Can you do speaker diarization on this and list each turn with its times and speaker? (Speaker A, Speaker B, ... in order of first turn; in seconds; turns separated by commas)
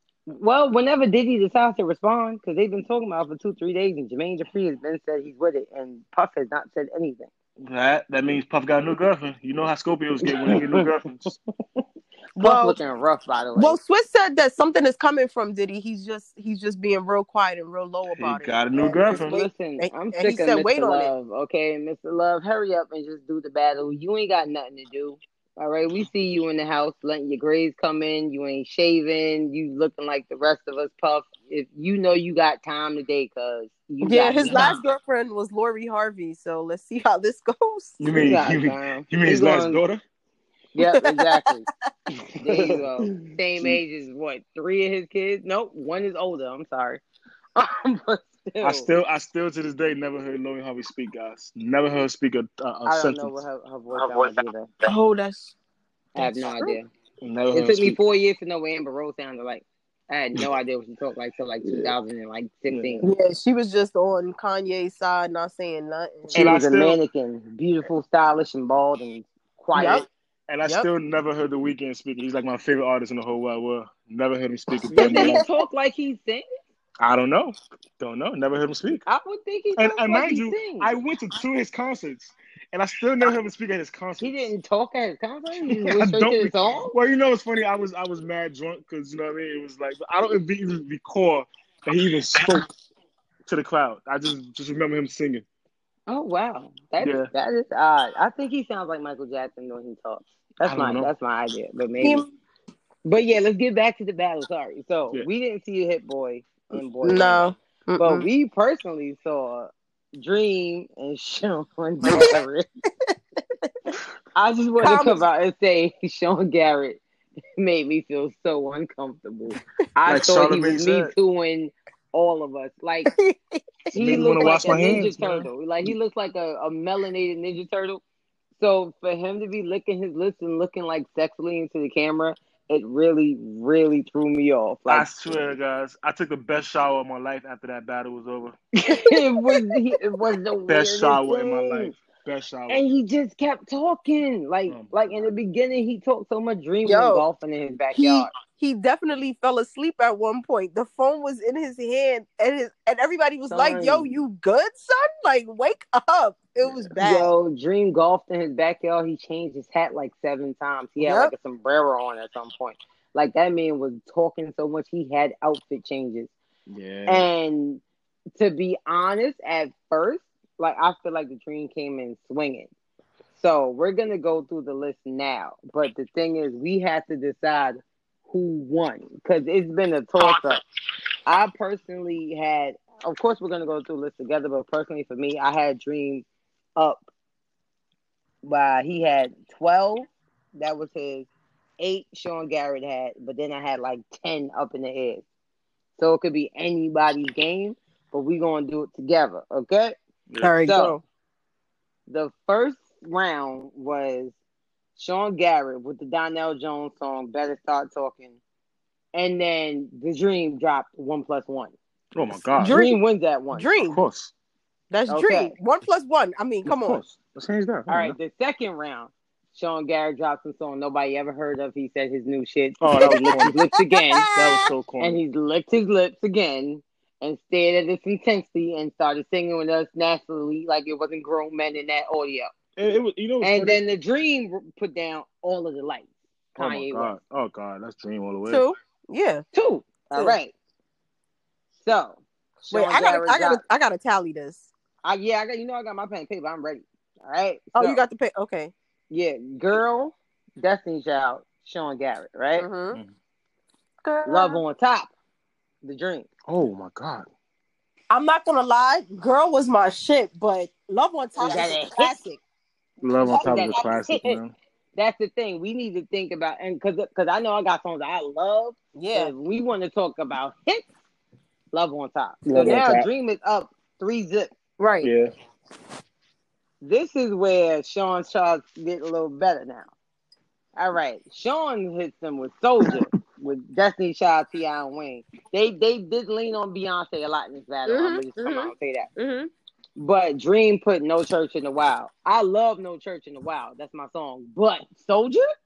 Speaker A: 0.3-7.3, Speaker B: 7.6-11.4, Speaker A: 10.3-10.9, Speaker A: 12.4-13.8, Speaker C: 12.4-12.8, Speaker C: 13.6-21.1, Speaker B: 18.1-19.4, Speaker A: 19.1-34.8, Speaker C: 34.0-38.0, Speaker B: 34.5-34.8, Speaker B: 38.0-40.0, Speaker A: 38.1-39.8, Speaker A: 40.8-41.7, Speaker C: 40.8-41.4, Speaker A: 42.4-47.0, Speaker B: 42.4-43.8, Speaker A: 47.6-48.9, Speaker B: 48.6-53.4, Speaker A: 52.9-54.7, Speaker B: 54.0-54.4, Speaker C: 54.8-55.5, Speaker A: 56.1-56.9, Speaker C: 56.2-56.8, Speaker B: 57.2-58.0, Speaker A: 57.5-63.1, Speaker B: 61.7-61.9, Speaker B: 62.7-63.0, Speaker C: 63.0-66.5, Speaker A: 66.3-70.1, Speaker B: 66.3-67.0, Speaker C: 69.7-70.1, Speaker B: 70.5-75.5, Speaker A: 74.9-76.5, Speaker C: 75.0-75.5, Speaker B: 77.0-79.0, Speaker A: 79.1-80.9, Speaker B: 79.8-84.5, Speaker A: 84.2-86.9, Speaker B: 85.6-92.7, Speaker B: 93.5-95.5, Speaker A: 96.1-102.2, Speaker B: 97.0-97.3, Speaker B: 100.7-101.1, Speaker C: 102.0-102.3, Speaker A: 103.0-112.7, Speaker C: 107.0-108.3, Speaker C: 112.0-112.3, Speaker A: 114.4-117.0, Speaker C: 114.8-115.2, Speaker A: 117.6-123.1, Speaker B: 120.1-121.1, Speaker C: 123.1-124.7, Speaker A: 123.9-128.0, Speaker B: 123.9-125.5, Speaker A: 128.6-135.1, Speaker B: 134.9-138.6, Speaker A: 138.8-141.9, Speaker C: 138.9-139.7, Speaker B: 140.7-142.8, Speaker A: 142.7-148.3, Speaker B: 144.7-145.3, Speaker C: 146.8-147.2, Speaker C: 147.9-157.3, Speaker A: 153.5-154.1, Speaker A: 157.0-166.3, Speaker C: 161.0-161.3, Speaker B: 166.7-167.3, Speaker A: 167.1-167.8, Speaker A: 168.4-172.7, Speaker A: 173.3-180.6, Speaker A: 181.3-187.1, Speaker A: 188.4-195.2, Speaker A: 196.0-200.0, Speaker C: 200.4-201.0, Speaker A: 200.6-201.0, Speaker A: 202.1-204.3, Speaker A: 205.0-208.4, Speaker A: 209.1-211.8, Speaker B: 212.2-212.8, Speaker C: 212.6-213.0, Speaker A: 212.6-213.7, Speaker C: 213.5-214.0, Speaker B: 213.8-214.3, Speaker C: 214.9-217.0, Speaker A: 215.1-215.6, Speaker B: 216.7-218.2, Speaker A: 217.9-224.3, Speaker B: 222.8-223.6, Speaker C: 222.9-224.7, Speaker B: 224.3-225.2, Speaker A: 225.0-232.5, Speaker B: 232.8-233.8, Speaker A: 233.4-237.2, Speaker B: 236.6-238.7, Speaker C: 238.5-239.4, Speaker A: 239.5-240.5, Speaker A: 241.8-243.6, Speaker C: 242.7-244.7, Speaker A: 245.0-248.0, Speaker C: 247.8-248.7, Speaker A: 249.1-252.7, Speaker C: 252.6-253.0, Speaker C: 254.0-254.6, Speaker A: 254.3-255.1, Speaker A: 255.8-256.3, Speaker B: 256.5-257.3, Speaker C: 258.1-262.4, Speaker A: 261.4-262.2, Speaker B: 263.0-264.5, Speaker A: 263.2-264.4, Speaker C: 263.3-263.9, Speaker A: 265.0-270.9, Speaker C: 268.9-269.3, Speaker A: 271.7-274.5, Speaker B: 272.4-273.1, Speaker C: 274.8-275.1, Speaker B: 275.0-275.3, Speaker A: 276.8-279.9, Speaker A: 280.8-289.1, Speaker C: 287.9-289.5, Speaker A: 290.0-295.5